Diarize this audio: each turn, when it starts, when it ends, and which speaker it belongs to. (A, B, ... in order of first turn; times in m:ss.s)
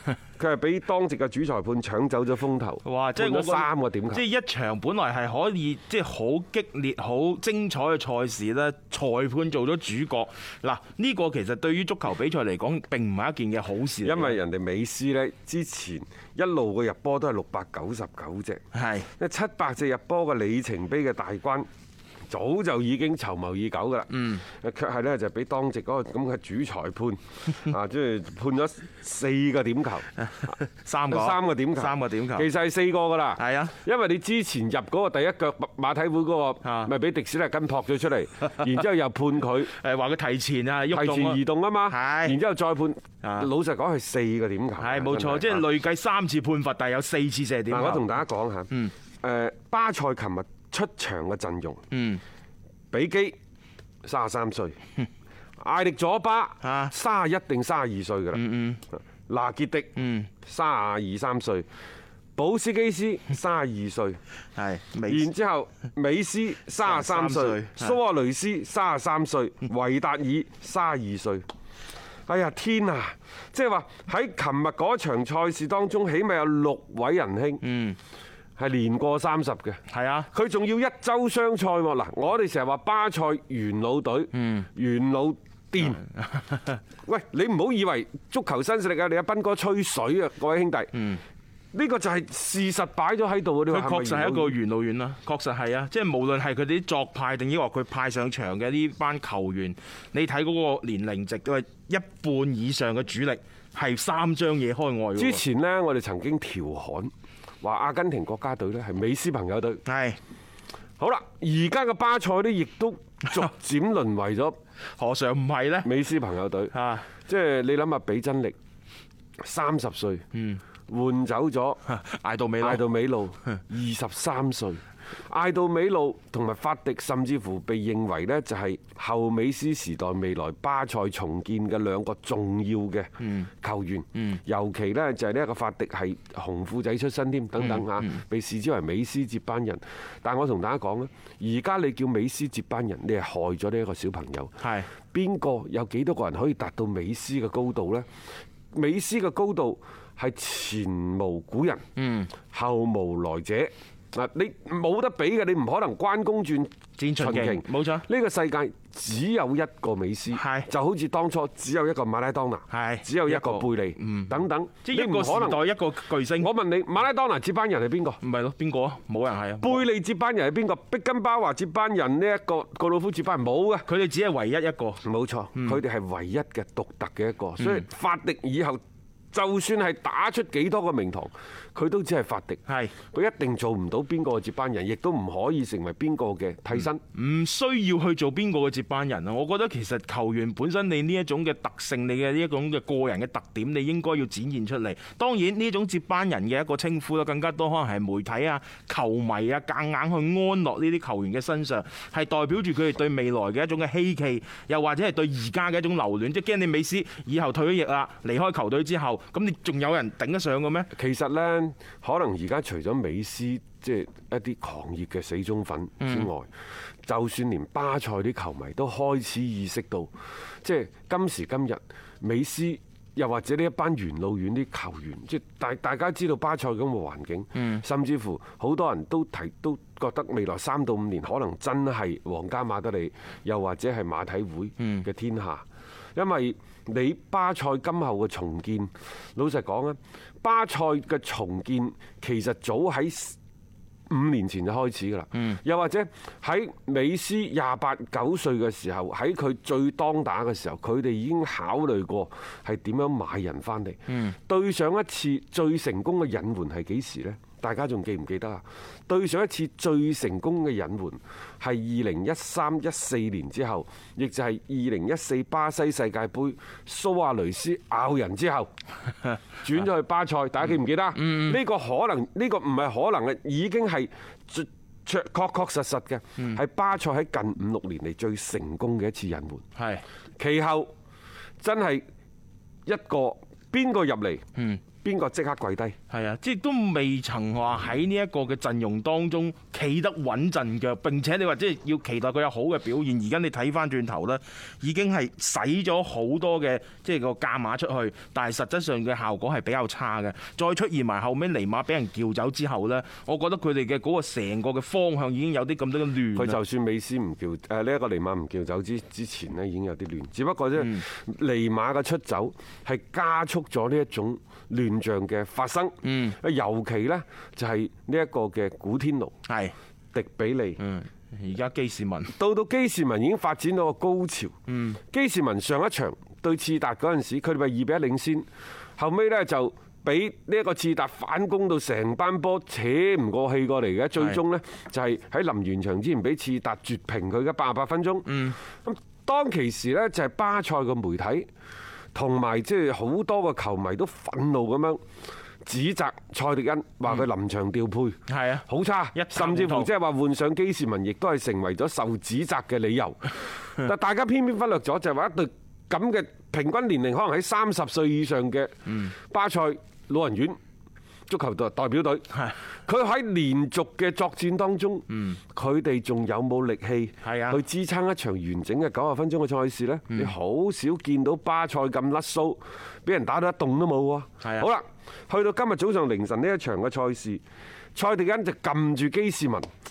0:00.4-0:04.2 A
0:02.8-0:14.4 B
0:14.0-0:18.6 A
0:18.7-0:19.1 B
0:19.2-0:21.7 A
0:22.3-0:30.1 A
0:24.1-0:24.4 B
0:30.2-0:32.5 B
0:31.1-0:39.7 A
0:33.4-0:33.8 B
0:36.6-0:36.9 B
0:39.6-0:42.4 B
0:40.9-0:45.7 A
0:43.2-0:43.5 B
0:44.8-0:48.2 B
0:47.7-0:48.7 A
0:49.2-0:51.8 A
0:51.9-0:52.2 B
0:52.9-0:53.4 A
0:54.0-0:54.8 A
0:55.6-0:58.4 A
0:56.6-0:56.9 B
0:58.3-0:58.8 B
0:59.3-1:01.7 A
1:00.0-1:00.3 B
1:02.4-1:04.2 A
1:04.5-1:05.3 B
1:05.0-1:11.4 A
1:06.8-1:08.0 B
1:12.3-1:17.6 A
1:17.6-1:18.0 B
1:18.6-1:19.8 A
1:19.9-1:20.3 B
1:20.3-1:26.0 A
1:24.3-1:24.7 B
1:26.0-1:26.8 B
1:27.0-1:30.9 A
1:31.0-1:31.2 B
1:31.7-1:34.6 A
1:33.7-1:45.4 B
1:45.1-1:47.1 A
1:47.6-1:49.8 A
1:49.8-1:50.2 B
1:51.0-1:54.6 A
1:54.9-1:55.9 B
1:55.8-1:56.7 A
1:56.7-1:57.1 B
1:57.2-1:58.5 A
1:59.4-2:00.2 A
2:00.3-2:00.6 B
2:00.9-2:01.8 A
2:01.8-2:02.8 B
2:02.6-2:13.1 A
2:13.2-2:13.5 B
2:13.6-2:24.6 A
2:17.6-2:18.2 B
2:24.6-2:24.9 B
2:25.1-2:28.1 A
2:28.7-2:31.8 A
2:32.0-2:32.3 B
2:32.5-2:45.6 A
2:37.0-2:38.0 B
2:40.3-2:40.7 B
2:42.7-2:46.5 B
2:46.4-2:48.2 A
2:48.2-2:49.8 B
2:49.6-2:53.9 A
2:53.8-2:55.0 B
2:55.0-2:58.8 A
2:55.5-2:55.8 B
2:57.6-2:57.8 B
2:59.3-3:07.0 A
3:02.7-3:02.9 B
3:07.1-3:30.9 B
3:30.9-3:36.5 A
3:36.0-3:36.3 B
3:37.0-3:40.1 A
3:40.6-4:03.4 A
3:47.5-3:47.8 B
3:54.8-3:55.1 B
4:04.1-4:28.7 A
4:05.3-4:05.6 B
4:14.1-4:14.4 B
4:29.6-4:39.6 A
4:31.1-4:31.6 B
4:39.8-4:40.0 B
4:40.4-4:40.9 A
4:41.6-4:42.0 A
4:42.8-4:44.4 A
4:44.6-4:44.8 B
4:45.0-4:45.9 A
4:46.1-5:06.6 B
5:06.3-5:19.3 A
5:10.8-5:11.0 B
5:16.0-5:16.4 B
5:19.5-5:19.7 B
5:20.1-5:20.8 A
5:20.8-5:22.3 B
5:22.4-5:24.5 A
5:24.7-5:25.0 B
5:25.1-5:28.4 A
5:29.0-5:41.5 A
5:38.2-5:38.6 B
5:42.1-5:45.0 A
5:45.6-6:00.6 A
5:48.3-5:49.9 B
5:58.8-5:59.1 B
6:01.3-6:02.3 A
6:02.8-6:17.4 A
6:05.1-6:05.4 B
6:07.2-6:07.6 B
6:14.4-6:14.7 B
6:17.9-6:19.7 A